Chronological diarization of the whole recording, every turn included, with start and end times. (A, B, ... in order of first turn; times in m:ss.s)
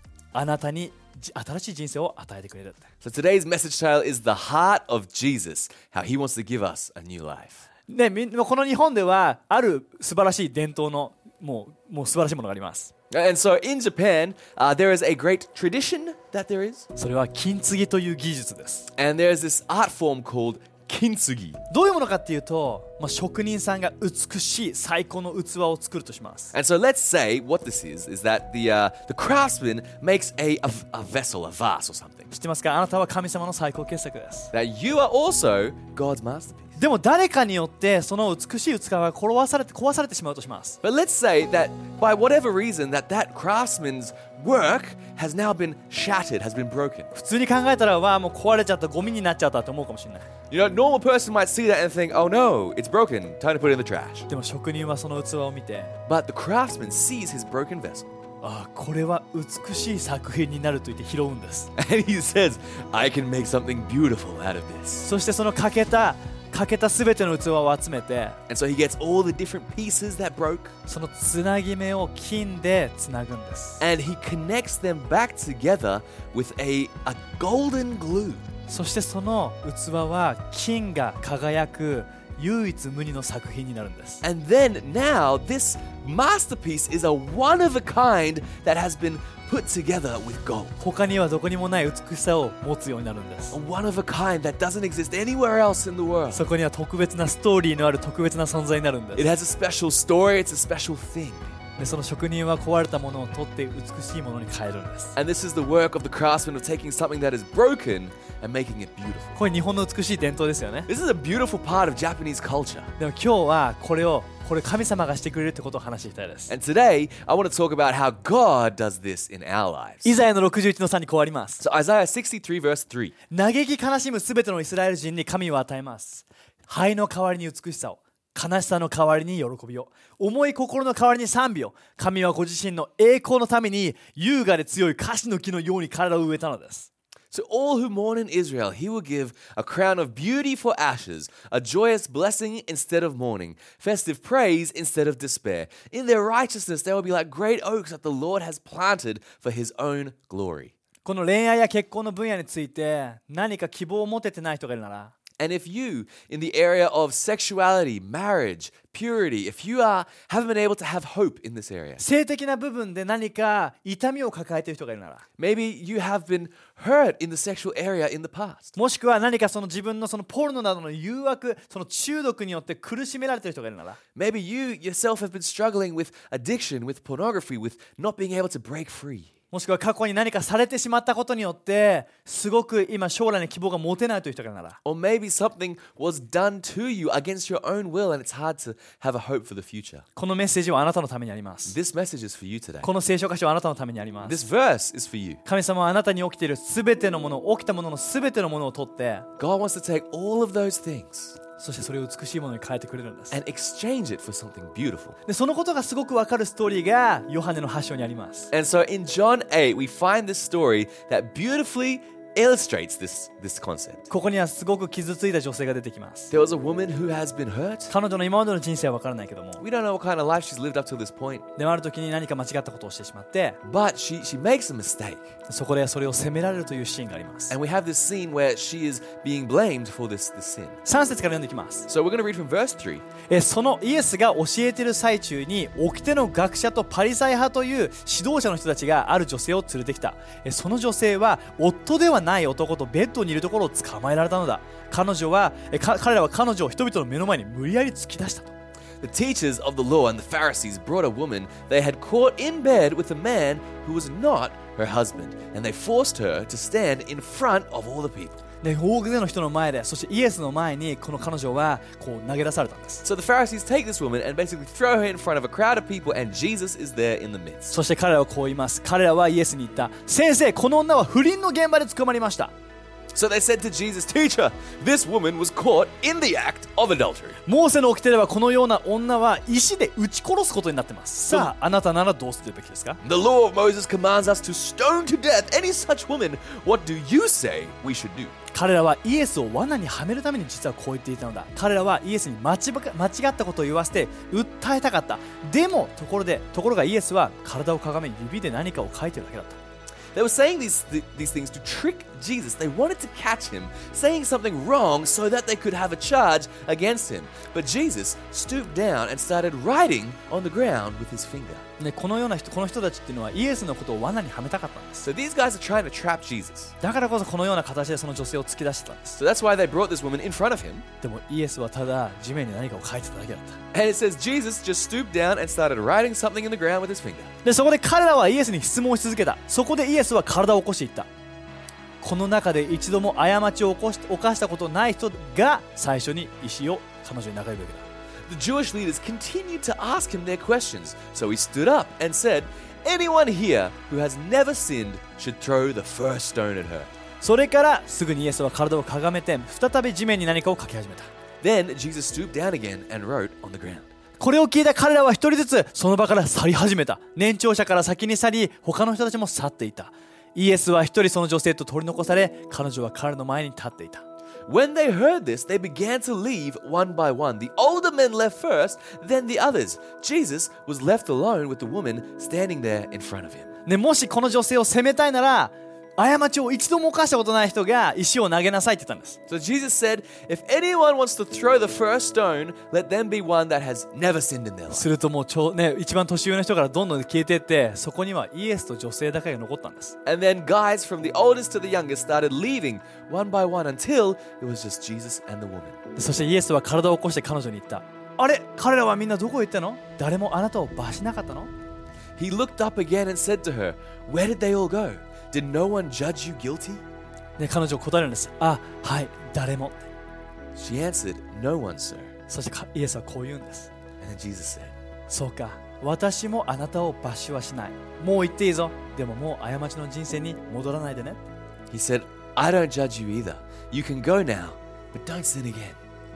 0:00.3-0:02.9 A
0:03.0-0:07.7 B
0:07.9-0:12.9 A
0:13.1-0:16.9 B
0:17.0-0:18.9 A
0:18.9-0:21.6 B
0:21.7-0:26.5 A
0:26.5-0:32.3 B
0:32.3-0:34.5 A
0:34.5-0:36.8 B
0:36.8-0:40.8 A
0:40.8-0:47.1 B
0:47.1-0:50.3 A
0:50.5-0:54.3 B
0:54.3-0:56.0 A
0:56.1-0:58.1 B
0:58.4-1:01.7 A
1:01.8-1:05.1 B
1:05.0-1:08.4 A
1:08.5-1:10.7 B
1:10.9-1:13.8 A
1:13.8-1:18.5 B
1:18.7-1:24.2 A
1:24.2-1:30.8 B
1:30.8-1:33.6 A
1:33.5-1:36.4 B
1:36.3-1:39.3 A
1:39.2-1:41.5 B
1:41.8-1:45.2 A
1:45.2-1:49.4 B
1:49.4-1:50.9 A
1:50.9-1:52.9 B
1:53.0-1:56.5 A
1:56.5-2:00.1 B
2:00.0-2:01.6 A
2:01.6-2:03.1 B
2:03.3-2:16.9 A
2:17.3-2:30.7 B
2:31.0-2:35.1 A
2:35.4-2:42.0 B
2:42.0-2:45.2 A
2:45.4-2:48.7 B
2:48.8-2:54.0 A
2:54.2-2:59.3 B
2:59.5-3:04.8 A
3:04.8-3:10.0 B
3:10.2-3:11.8 A
3:11.7-3:12.9 B
3:12.8-3:14.4 A
3:14.2-3:15.4 B
3:15.4-3:19.3 A
3:19.4-3:21.4 B
3:21.6-3:23.4 A
3:23.3-3:25.2 B
3:25.3-3:28.5 A
3:28.5-3:34.1 B
3:34.1-3:36.3 A
3:36.3-3:37.9 B
3:37.9-3:39.6 A
3:39.6-3:41.4 B
3:41.6-3:43.6 A
3:43.6-3:45.3 B
3:45.5-3:47.5 A
3:47.5-3:50.8 B
3:50.8-3:51.9 A
3:51.9-3:53.1 B
3:53.3-4:08.5 A
4:09.0-4:18.4 B
4:18.6-4:23.0 A
4:23.0-4:27.8 B
4:27.7-4:32.5 A
4:33.1-4:37.4 B
4:37.5-4:43.0 A
4:43.0-4:48.4 B
4:48.5-4:59.6 A
5:00.1-5:11.6 B
5:11.8-5:15.1 A
5:15.0-5:16.7 B
5:16.8-5:19.2 A
5:19.2-5:20.8 B
5:21.0-5:23.6 A
5:23.7-5:27.3 B
5:27.4-5:31.1 A
5:32.0-5:37.8 A
5:38.3-5:46.9 B
5:47.2-5:51.1 A
5:51.4-5:53.9 B
5:54.2-6:04.0 A
6:04.5-6:13.5 B
6:13.7-6:19.2 A
6:19.3-6:24.9 B
6:24.7-6:30.0 A
6:30.0-6:35.8 B
6:36.0-6:41.5 A
6:42.2-6:46.8 B
6:47.4-6:49.9 A
6:50.6-6:52.1 B
6:52.3-6:53.7 A
6:54.0-6:54.7 B
6:55.1-7:01.2 A
7:01.7-7:05.8 B